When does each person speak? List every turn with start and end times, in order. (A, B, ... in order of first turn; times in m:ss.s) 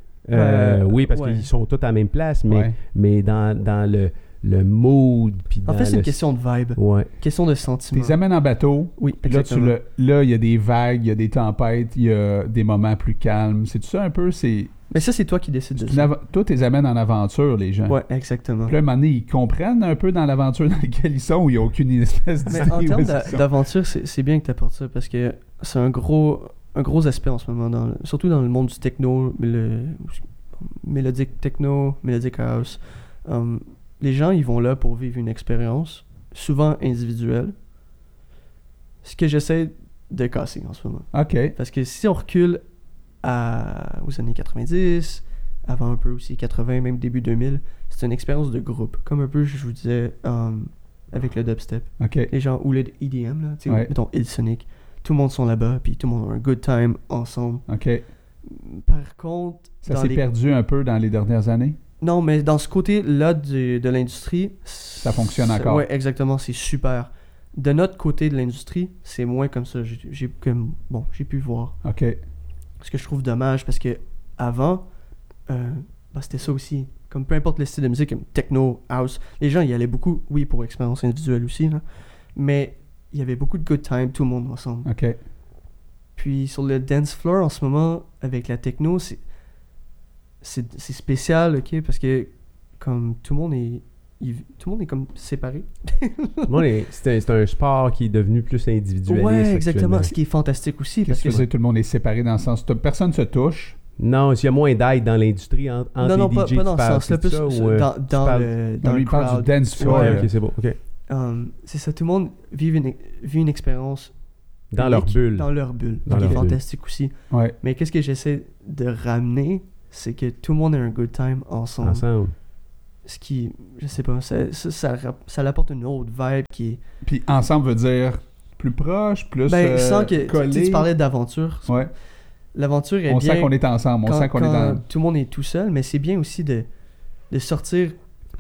0:00.3-0:06.2 A
0:00.3-0:01.5 B
0:02.5-0:02.7 C
0:05.7-0:08.2 B
0:06.8-0:07.1 A
0:07.9-0:14.9 C
0:09.0-0:09.8 B
0:14.9-0:16.1 B
0:15.8-0:18.0 C
0:17.9-0:18.8 B
0:18.7-0:23.5 C
0:22.5-0:37.5 B
0:39.0-0:42.6 B
0:41.1-0:41.6 C
0:43.2-0:57.6 B
0:52.0-0:52.3 C
0:53.7-0:53.9 C
0:57.7-0:58.0 C
0:58.4-1:00.2 B
0:59.8-1:01.8 C
1:02.0-1:11.8 B
1:05.0-1:05.9 C
1:11.8-1:12.2 C
1:12.8-1:14.8 B
1:15.5-1:24.9 B
1:24.8-1:25.2 C
1:26.2-1:29.2 B
1:30.4-1:36.6 B
1:36.5-1:40.1 A
1:39.1-1:41.4 B
1:41.0-1:43.8 C
1:44.0-1:48.5 A
1:46.0-1:50.3 B
1:48.8-1:50.3 C
1:49.8-1:50.8 A
1:51.1-1:54.1 B
1:54.7-1:55.5 A
1:54.8-2:02.0 B
1:56.0-1:56.6 A
1:56.1-1:56.4 C
2:01.8-2:02.3 A
2:03.0-2:06.8 B
2:07.0-2:10.9 C
2:09.5-2:11.7 B
2:12.6-2:13.5 B
2:13.1-2:14.8 C
2:14.0-2:16.7 B
2:17.3-2:18.0 B